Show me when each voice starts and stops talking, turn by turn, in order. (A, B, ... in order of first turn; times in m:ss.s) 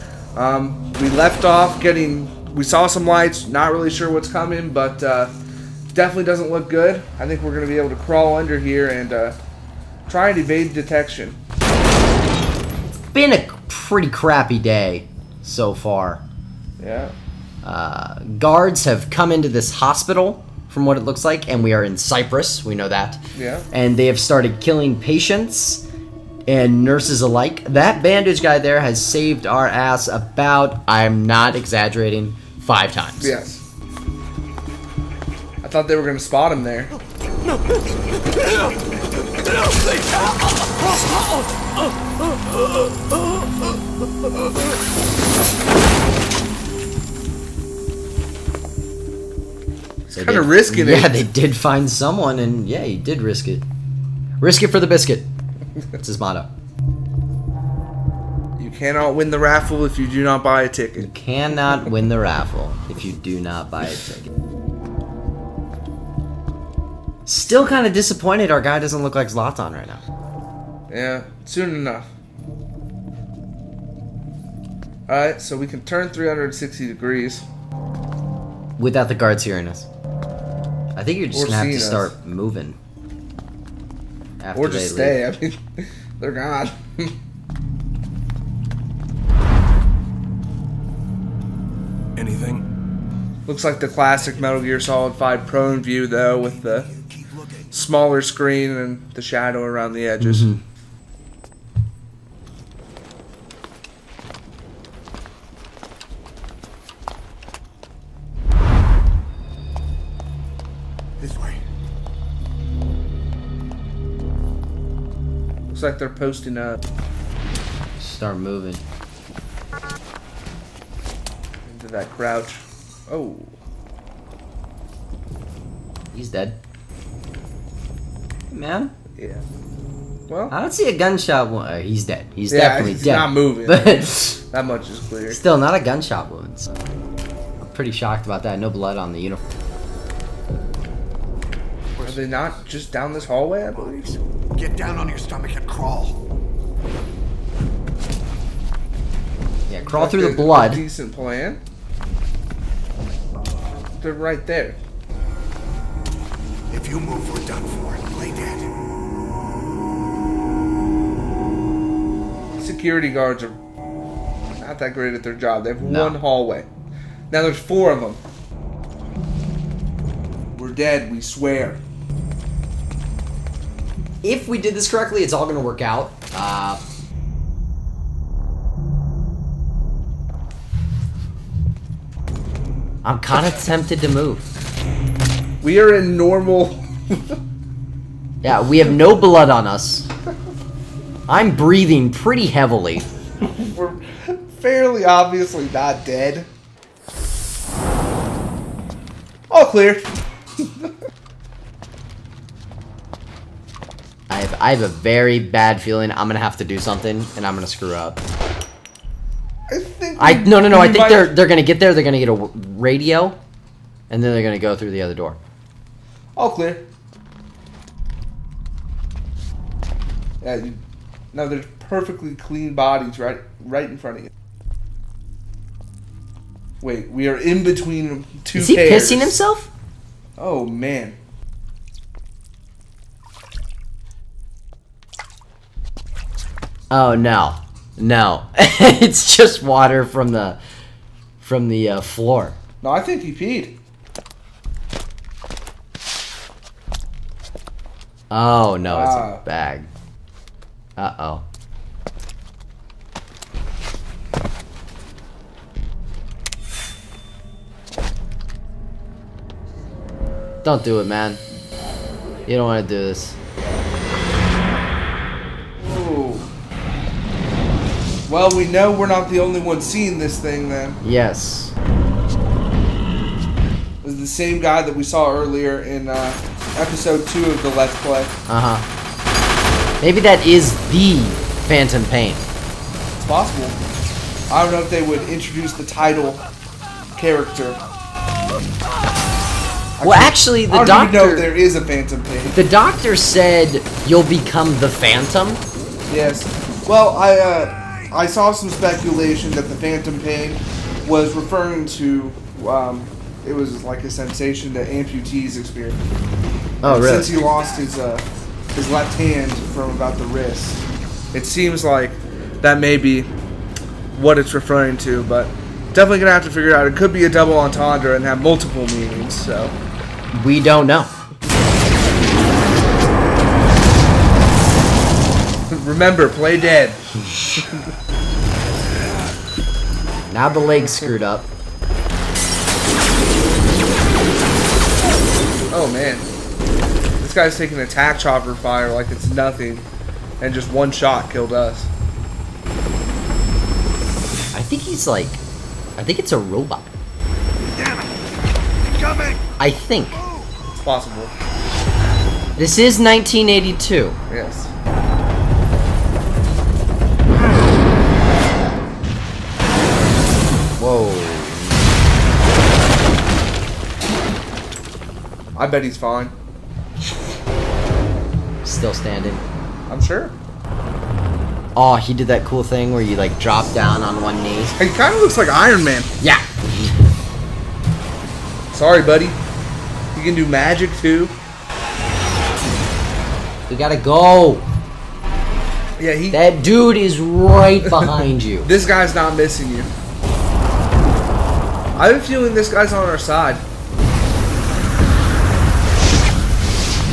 0:00.3-0:05.3 A
0:05.9-0:09.4 A
0:10.1-0:11.4 A
0:13.1-0:16.2 B
0:16.8-0:17.1 A
0:17.6-0:25.8 B
0:23.3-0:23.7 A
0:26.5-0:33.3 B
0:33.2-0:33.6 A
0:35.6-0:36.9 A
0:50.1-0:51.3 A
0:50.1-0:53.6 B
0:54.4-0:55.3 B
0:56.0-0:56.5 B
0:58.6-1:01.1 A
1:01.0-1:04.3 B
1:07.2-1:10.0 B
1:10.9-1:12.1 A
1:15.1-1:17.4 A
1:18.8-1:19.9 B
1:21.0-1:22.8 B
1:21.3-1:22.1 A
1:24.4-1:25.2 B
1:24.5-1:27.1 A
1:32.2-1:32.6 C
1:33.5-1:36.9 A
1:37.7-1:40.5 A
1:40.2-1:40.6 B
1:51.2-1:51.5 A
1:55.7-1:56.8 A
1:58.0-1:58.8 B
2:01.6-2:03.5 A
2:06.1-2:06.6 B
2:08.5-2:08.9 B
2:10.3-2:10.5 A
2:10.5-2:14.4 B
2:12.5-2:15.4 A
2:15.3-2:16.7 B
2:17.6-2:19.4 B
2:22.0-2:24.2 A
2:23.9-2:26.2 C
2:29.7-2:30.8 B
2:29.8-2:31.6 A
2:34.0-2:34.8 A
2:36.7-2:38.8 C
2:42.6-2:43.6 A
2:44.6-2:46.7 A
2:45.8-2:46.2 B
2:47.3-2:48.2 A
2:50.5-2:51.8 A
2:54.2-2:56.8 B
3:03.0-3:04.5 B
3:05.6-3:07.4 A
3:08.4-3:10.1 B
3:11.3-3:13.1 B
3:13.4-3:16.5 A
3:19.5-3:20.0 A
3:20.6-3:20.9 A
3:24.3-3:28.2 B
3:29.7-3:31.3 A
3:30.2-3:33.4 B
3:34.1-3:35.4 B
3:36.4-3:36.8 A
3:40.4-3:40.8 A
3:41.3-3:44.3 A
3:46.8-3:49.4 A
3:48.5-3:49.7 B
3:50.4-3:51.2 A
3:56.9-4:00.6 B
4:01.4-4:02.6 B
4:02.8-4:03.7 A
4:08.3-4:09.9 B
4:08.9-4:09.4 A
4:11.0-4:11.4 B
4:20.6-4:21.4 B
4:22.5-4:23.4 B
4:25.8-4:26.5 A
4:28.3-4:31.0 A
4:31.0-4:31.7 B
4:34.0-4:38.3 A
4:38.5-4:38.8 B
4:40.0-4:42.4 B
4:43.2-4:43.8 A
4:44.5-4:46.4 A
4:47.2-4:47.8 A
4:50.0-4:52.6 A
4:50.0-4:51.5 B
4:52.5-4:55.6 B
4:56.1-5:06.0 A
5:06.8-5:07.3 B
5:06.8-5:13.3 A
5:14.1-5:19.7 A
5:20.3-5:21.1 B
5:25.7-5:27.0 A
5:30.3-5:31.5 B
5:35.7-5:36.3 A
5:37.2-5:39.9 A
5:40.4-5:41.9 A
5:44.5-5:45.4 B
5:46.0-5:46.9 B
5:47.7-5:48.1 C
5:48.9-5:49.4 C
5:49.6-5:50.2 B
5:50.8-5:51.3 A
5:52.6-5:54.2 B
5:54.3-5:54.7 A
6:00.8-6:01.8 B
6:05.5-6:06.3 A
6:08.6-6:09.4 B
6:09.9-6:10.3 A
6:11.8-6:14.8 B
6:14.8-6:16.1 A
6:16.2-6:17.1 B
6:18.7-6:19.4 A
6:20.1-6:21.3 A
6:23.7-6:24.7 B
6:26.0-6:26.4 A
6:26.3-6:28.7 B
6:27.8-6:29.9 A
6:32.0-6:33.6 A